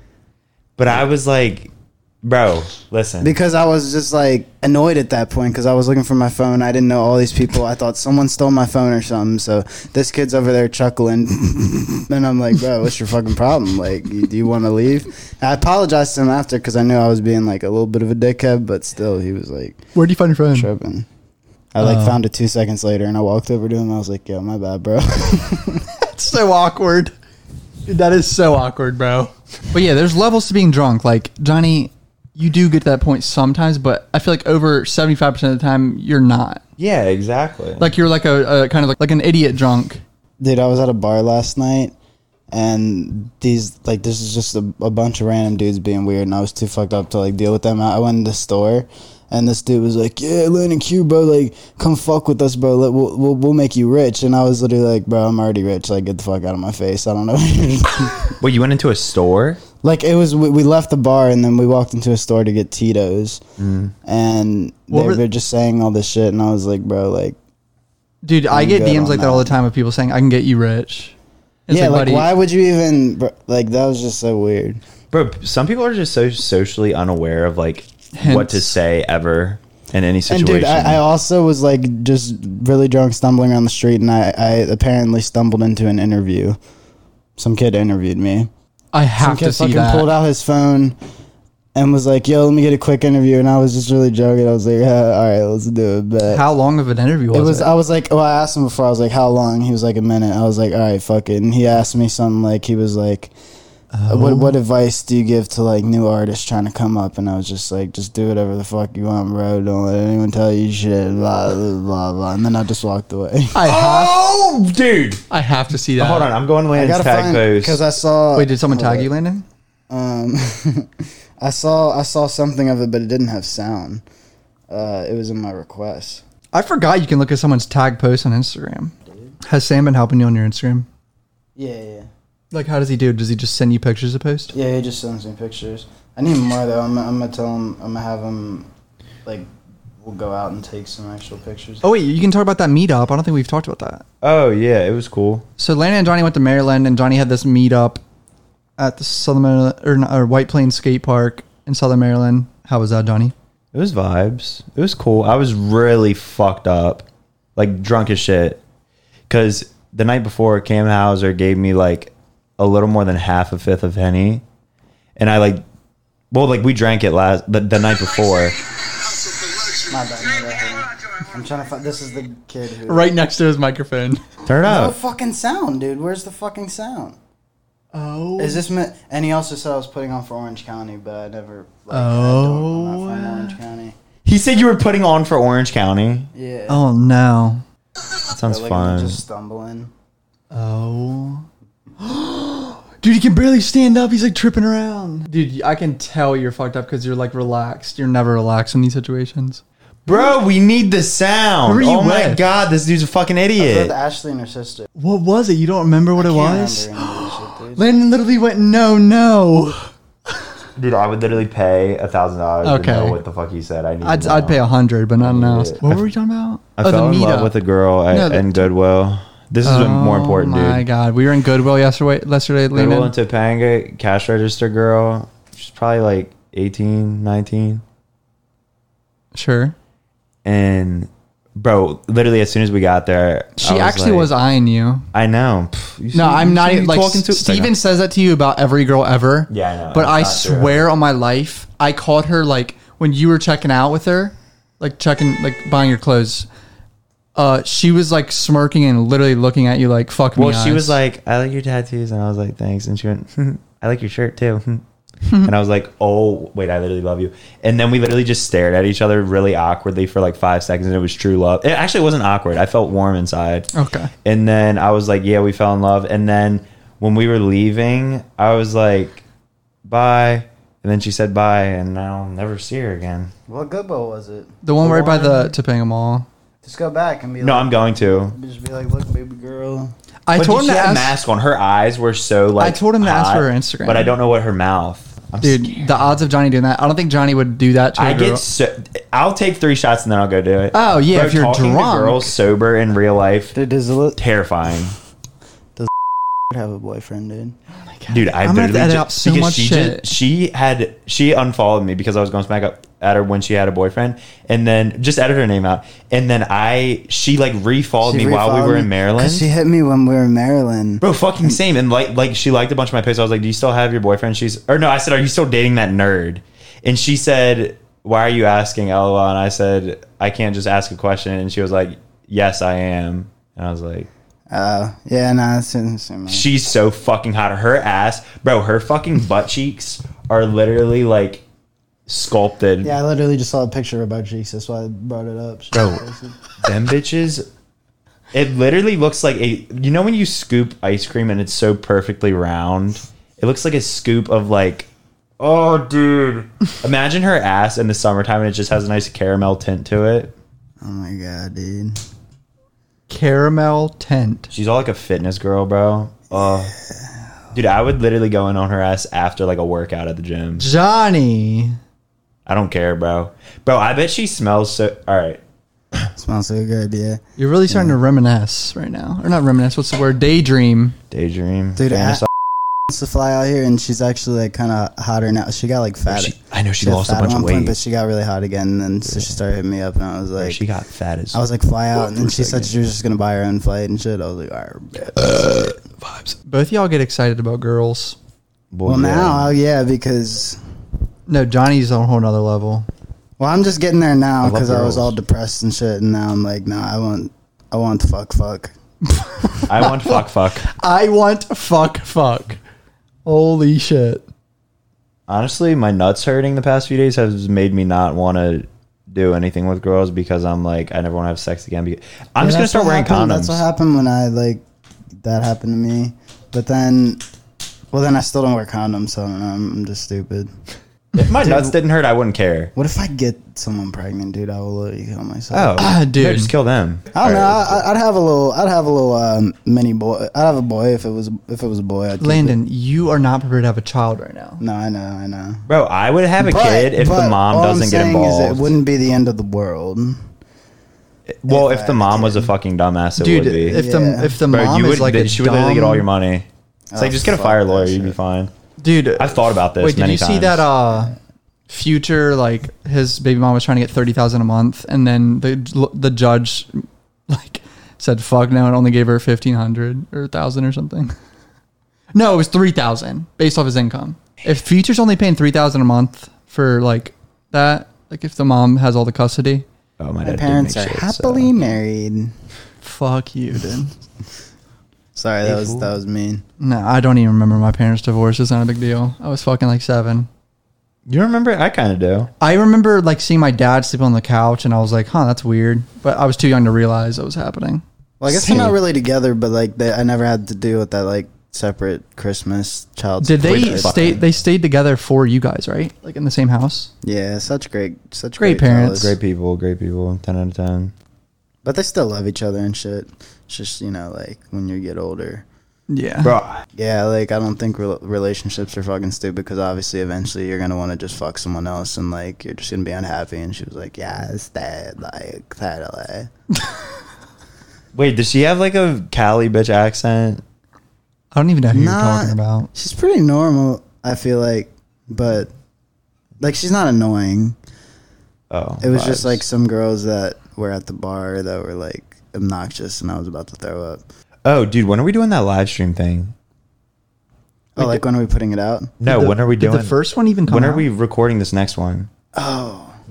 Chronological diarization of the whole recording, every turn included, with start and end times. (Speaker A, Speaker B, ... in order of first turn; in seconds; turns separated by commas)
Speaker A: 0.8-1.7, Speaker A: 2.2-3.3, Speaker B: 3.2-19.8, Speaker C: 19.9-20.7, Speaker B: 20.5-21.1, Speaker B: 21.7-25.9, Speaker C: 21.8-22.2, Speaker C: 26.0-27.1, Speaker C: 27.9-36.6, Speaker A: 36.8-37.9, Speaker C: 37.8-40.0, Speaker B: 40.4-41.9, Speaker B: 42.5-58.4, Speaker A: 58.4-59.6, Speaker B: 59.8-63.4, Speaker A: 63.6-63.9, Speaker B: 64.0-67.4, Speaker C: 64.9-65.2, Speaker C: 68.2-71.1, Speaker B: 68.5-69.6, Speaker C: 71.7-72.3, Speaker B: 71.7-74.8, Speaker A: 75.1-81.0, Speaker C: 78.1-78.7, Speaker B: 80.3-86.6, Speaker B: 87.4-88.5, Speaker C: 88.9-90.1, Speaker B: 89.2-91.0, Speaker B: 91.7-96.4, Speaker C: 96.2-97.7, Speaker B: 97.3-103.3, Speaker C: 103.9-104.5, Speaker B: 104.1-113.6, Speaker C: 113.5-114.2, Speaker A: 113.7-115.2, Speaker C: 115.3-116.3, Speaker A: 116.0-117.8, Speaker B: 116.7-119.1, Speaker C: 118.3-119.4, Speaker B: 119.9-124.0, Speaker B: 124.7-126.2, Speaker C: 126.5-130.9, Speaker B: 131.6-132.1, Speaker C: 132.5-134.5, Speaker B: 134.5-138.7, Speaker B: 140.0-141.8, Speaker C: 141.8-144.0, Speaker A: 144.2-145.4, Speaker C: 145.6-148.0, Speaker C: 148.8-153.3, Speaker A: 153.7-158.6, Speaker A: 159.3-164.4, Speaker A: 165.2-165.6, Speaker A: 166.3-168.6, Speaker B: 169.7-173.1, Speaker C: 172.8-174.2, Speaker A: 174.4-174.9, Speaker B: 174.6-177.2, Speaker C: 177.9-178.6, Speaker B: 178.4-183.9, Speaker C: 181.9-183.6, Speaker A: 184.2-186.3, Speaker B: 186.3-186.8, Speaker C: 186.7-187.6, Speaker A: 188.3-189.2, Speaker B: 188.4-189.9, Speaker C: 190.5-191.4, Speaker C: 192.0-200.3, Speaker A: 200.1-203.9, Speaker C: 201.6-202.4, Speaker B: 203.6-204.9, Speaker C: 205.0-209.9, Speaker B: 206.2-207.8, Speaker A: 210.8-214.6, Speaker C: 212.6-213.2, Speaker C: 214.0-217.5, Speaker A: 215.2-216.0, Speaker A: 216.8-220.8, Speaker C: 218.1-218.7, Speaker C: 219.6-223.1, Speaker A: 222.7-227.8, Speaker C: 229.3-229.7, Speaker A: 230.4-234.3, Speaker C: 233.6-235.1, Speaker A: 235.1-237.7, Speaker C: 236.1-246.5, Speaker A: 239.5-240.8, Speaker C: 247.3-251.0, Speaker A: 250.3-254.8, Speaker C: 255.2-255.5, Speaker A: 255.4-263.7, Speaker C: 263.7-264.1, Speaker A: 264.2-269.2, Speaker A: 269.9-273.3, Speaker B: 273.5-275.4, Speaker C: 274.6-276.2, Speaker B: 276.6-279.9, Speaker A: 277.4-278.3, Speaker C: 280.3-281.1, Speaker A: 280.4-285.9, Speaker C: 282.6-284.1, Speaker C: 285.4-288.4, Speaker A: 288.0-293.6, Speaker C: 290.7-292.3, Speaker B: 293.5-294.2, Speaker A: 294.1-294.9, Speaker B: 295.8-297.6, Speaker C: 297.8-300.1, Speaker A: 298.1-309.5, Speaker B: 308.0-311.6, Speaker A: 311.0-324.1, Speaker B: 324.5-326.4, Speaker A: 326.3-331.4, Speaker A: 332.1-332.9, Speaker B: 332.8-336.4, Speaker A: 335.7-336.0, Speaker A: 336.6-337.5, Speaker A: 338.3-344.9, Speaker A: 345.4-350.4, Speaker B: 350.8-352.0, Speaker C: 353.1-354.5, Speaker A: 354.5-356.7, Speaker B: 356.3-357.0, Speaker A: 357.5-360.7, Speaker C: 360.6-361.8, Speaker A: 362.4-365.4, Speaker B: 366.1-368.0, Speaker C: 367.4-371.0, Speaker A: 371.1-372.3, Speaker B: 371.8-372.3, Speaker B: 372.9-380.6, Speaker A: 376.1-377.8, Speaker A: 379.1-379.4, Speaker A: 380.4-381.4, Speaker B: 381.3-385.7, Speaker A: 382.0-382.7, Speaker A: 385.1-386.4, Speaker C: 386.5-388.1, Speaker A: 388.7-389.5, Speaker B: 388.9-390.6, Speaker C: 391.3-392.9, Speaker B: 393.4-398.7, Speaker A: 394.4-395.1, Speaker C: 399.1-402.6, Speaker A: 399.6-400.7, Speaker C: 403.2-404.2, Speaker A: 405.3-413.6, Speaker B: 412.4-414.6, Speaker B: 415.2-417.2, Speaker B: 417.9-420.5, Speaker A: 421.1-422.7, Speaker B: 421.4-421.8, Speaker B: 422.8-425.9, Speaker A: 425.5-427.8, Speaker C: 425.8-426.5, Speaker B: 427.1-432.6, Speaker C: 432.2-434.6, Speaker B: 434.6-435.6, Speaker A: 435.7-438.7, Speaker B: 436.4-440.2, Speaker A: 441.3-443.8, Speaker B: 441.5-442.5, Speaker C: 443.2-446.1, Speaker B: 443.7-444.4, Speaker A: 444.5-448.5, Speaker B: 446.9-448.1, Speaker C: 448.8-451.1, Speaker A: 449.2-450.7, Speaker C: 451.7-461.1, Speaker C: 462.1-469.6, Speaker A: 470.0-471.6, Speaker B: 470.2-472.3, Speaker C: 472.8-473.9, Speaker B: 475.1-476.4, Speaker A: 475.4-475.9, Speaker C: 476.6-480.3, Speaker A: 481.1-482.3, Speaker C: 482.4-487.8, Speaker B: 488.2-494.2, Speaker A: 488.4-488.7, Speaker C: 493.2-496.9, Speaker A: 493.4-494.2, Speaker B: 497.0-499.2, Speaker C: 498.4-499.1, Speaker A: 498.9-500.9, Speaker B: 501.6-505.4, Speaker C: 505.9-506.3, Speaker A: 506.2-506.6, Speaker B: 506.8-516.3, Speaker A: 517.9-520.4, Speaker C: 521.3-522.7, Speaker B: 521.7-525.5, Speaker B: 526.4-527.6, Speaker A: 528.5-529.4, Speaker B: 528.8-534.0, Speaker A: 534.4-536.3, Speaker B: 537.8-538.9, Speaker A: 539.0-542.1, Speaker C: 539.0-540.9, Speaker B: 542.3-542.9